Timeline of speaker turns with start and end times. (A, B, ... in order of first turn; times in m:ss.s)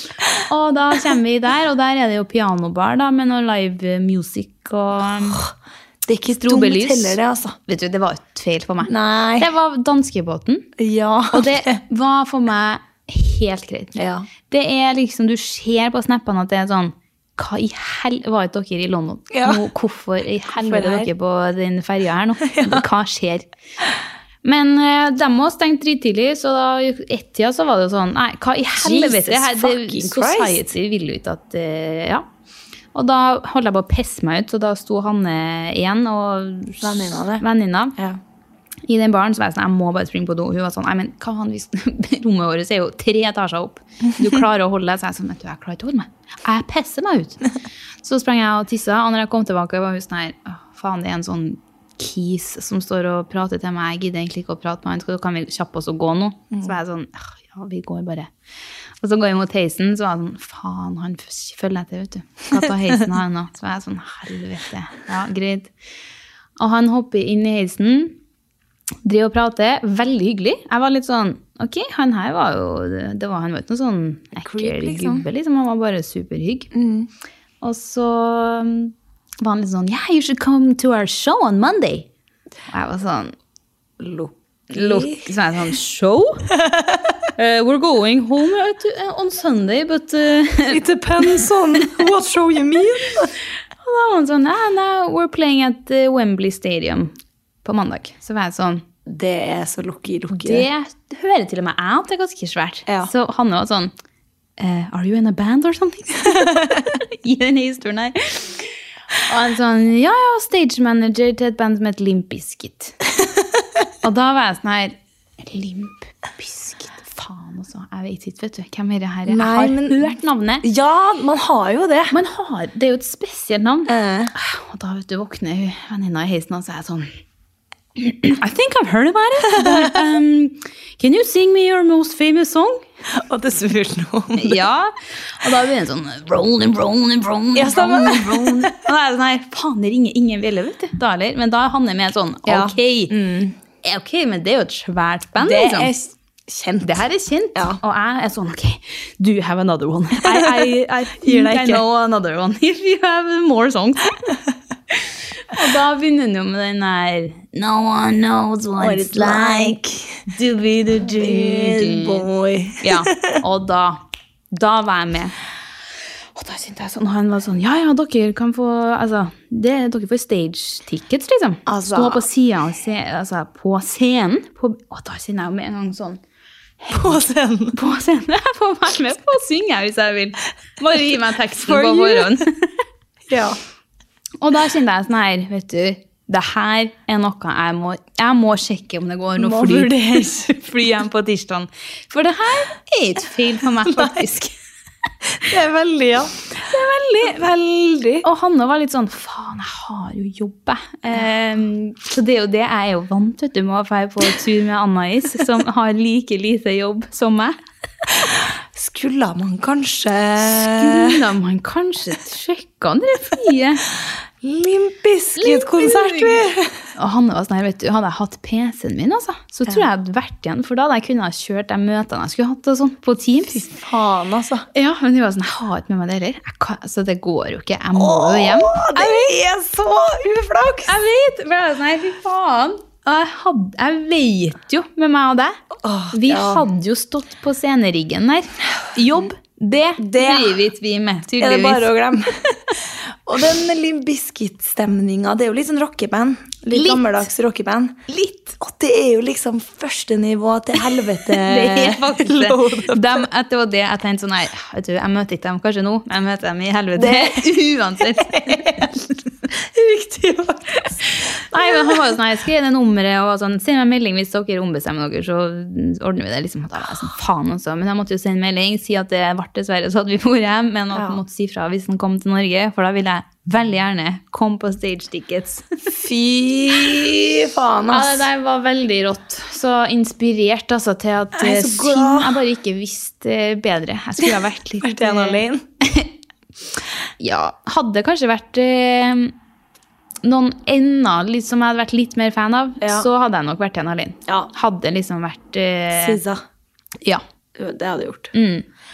0:00.4-0:05.4 A
0:06.1-0:07.6 B
0:06.4-0:10.7 A
0:08.9-0:09.5 B
0:10.8-0:11.8 B
0:11.3-0:14.0 A
0:14.0-0:14.3 B
0:14.5-0:23.5 A
0:19.3-0:19.6 B
0:20.6-0:21.1 B
0:22.5-0:22.8 B
0:24.4-0:32.3 A
0:28.8-0:30.6 B
0:32.9-0:38.0 A
0:36.8-0:37.4 B
0:38.9-0:47.4 A
0:48.0-0:58.3 A
0:59.0-1:05.7 A
1:06.6-1:08.2 A
1:09.0-1:16.7 A
1:14.4-1:15.2 B
1:16.7-1:17.1 B
1:17.6-1:22.1 A
1:22.7-1:23.3 A
1:24.0-1:25.3 B
1:24.7-1:26.5 A
1:26.6-1:27.0 B
1:27.4-1:32.1 A
1:30.7-1:33.3 B
1:33.8-1:38.8 A
1:39.1-1:40.7 B
1:40.3-1:43.9 A
1:44.6-1:48.7 A
1:49.3-1:53.0 A
1:54.0-2:00.6 A
1:59.3-2:02.1 B
2:02.1-2:07.1 A
2:03.9-2:04.3 B
2:08.0-2:12.8 A
2:09.6-2:09.8 B
2:13.2-2:14.6 B
2:14.4-2:23.1 A
2:17.6-2:18.8 B
2:22.5-2:23.6 B
2:23.8-2:25.9 A
2:25.4-2:27.0 B
2:26.8-2:34.1 A
2:27.6-2:27.8 B
2:30.2-2:31.8 B
2:35.5-2:39.8 A
2:38.8-2:40.2 B
2:40.3-2:42.3 A
2:41.0-2:43.4 B
2:42.8-2:44.0 A
2:44.5-2:45.4 A
2:46.4-2:56.2 A
2:51.7-2:52.3 B
2:56.8-2:57.2 A
2:56.9-2:57.8 B
2:57.7-3:02.7 A
3:01.7-3:02.4 B
3:03.3-3:03.6 B
3:04.4-3:14.5 A
3:09.4-3:10.6 B
3:13.8-3:14.2 B
3:15.4-3:16.4 B
3:16.6-3:17.4 A
3:17.2-3:18.2 B
3:18.2-3:27.6 A
3:28.2-3:31.2 B
3:30.4-3:33.8 A
3:34.4-3:36.8 B
3:35.4-3:36.4 A
3:37.0-3:43.6 A
3:43.5-3:44.7 B
3:44.7-3:49.3 A
3:48.0-3:51.0 B
3:50.9-3:55.6 A
3:55.8-3:56.7 B
3:56.1-4:01.9 A
4:00.0-4:00.6 B
4:01.4-4:13.3 B
4:06.7-4:07.2 A
4:11.3-4:19.1 A
4:17.0-4:17.6 B
4:18.2-4:18.9 B
4:19.5-4:22.0 B
4:21.5-4:35.7 A
4:30.9-4:31.2 B
4:35.9-4:38.3 B
4:37.9-4:46.1 A
4:41.4-4:42.4 B
4:44.2-4:45.6 B
4:47.2-4:49.3 A
4:50.2-4:56.2 A
4:52.8-4:53.1 B
4:55.9-4:56.4 B
4:57.6-4:58.3 B
4:58.3-4:58.6 A